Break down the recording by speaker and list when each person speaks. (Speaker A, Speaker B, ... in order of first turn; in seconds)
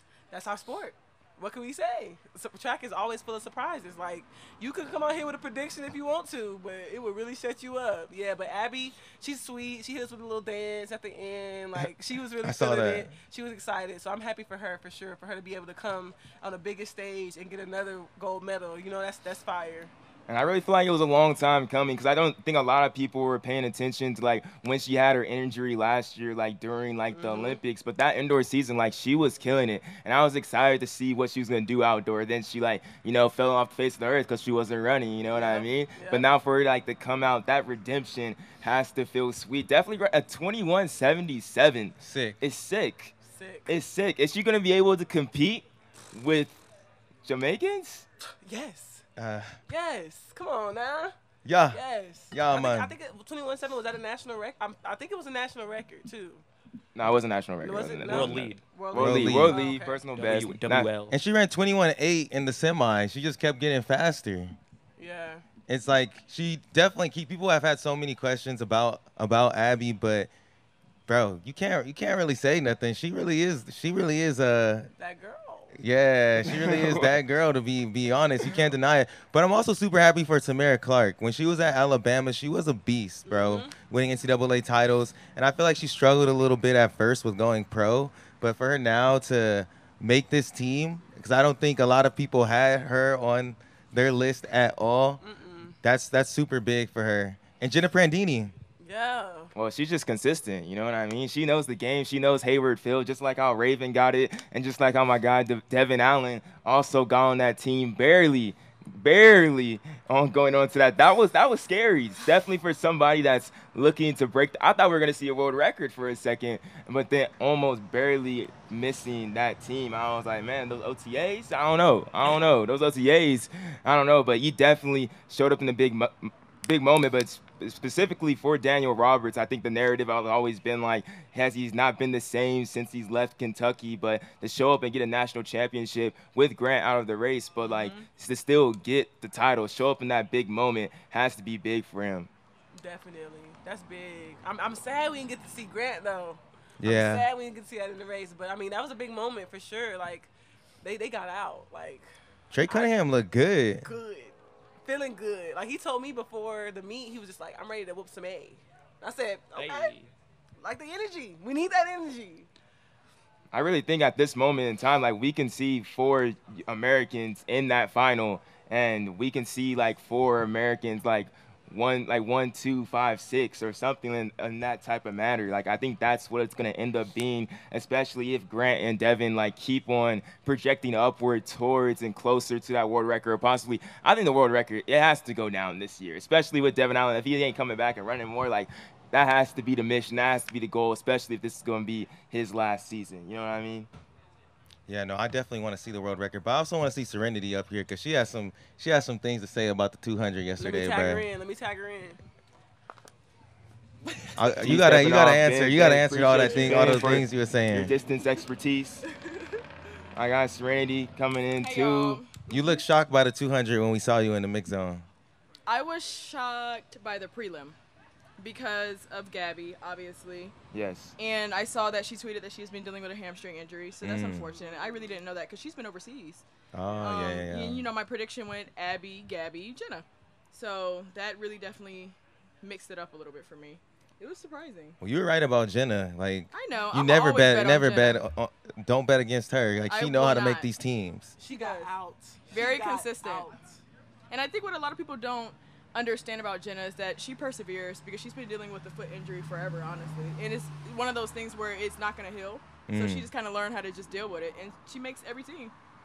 Speaker A: 0.3-19.9, 27.1-27.6, 35.3-36.3, 43.2-43.7, 48.4-49.0, 49.7-51.1, 51.7-56.4, 57.6-60.0, 65.0-65.4, 75.0-75.7, 83.2-83.7, 95.2-95.8, 98.8-99.5, 137.7-138.0, 142.7-150.3, 150.8-152.1, 152.7-152.9, 153.8-159.9, 160.6-162.5, 200.6-202.2, 241.4-243.8
Speaker B: 12.4-13.1, 42.0-42.4, 49.2-49.6, 51.4-52.9, 58.9-59.6, 61.1-64.5, 65.7-70.3, 71.1-74.9, 75.7-95.2, 95.8-98.5, 146.8-147.3, 152.5-153.9, 194.9-201.3, 204.3-207.9, 212.5-215.1, 224.0-224.5, 226.7-227.9, 235.0-241.3, 252.9-253.3
Speaker C: 20.3-43.1, 43.7-46.6, 47.2-48.0, 56.9-60.9, 76.5-77.1, 99.5-142.3, 163.5-193.9, 204.6-209.0, 210.2-212.2, 220.7-221.2
Speaker D: 58.0-58.6, 60.1-61.1, 159.6-160.1
Speaker E: 211.6-212.7, 215.7-217.8, 218.4-220.5, 221.2-226.4, 227.0-235.0, 236.5-238.2, 239.9-240.7, 241.5-241.9, 242.5-243.5, 244.3-255.7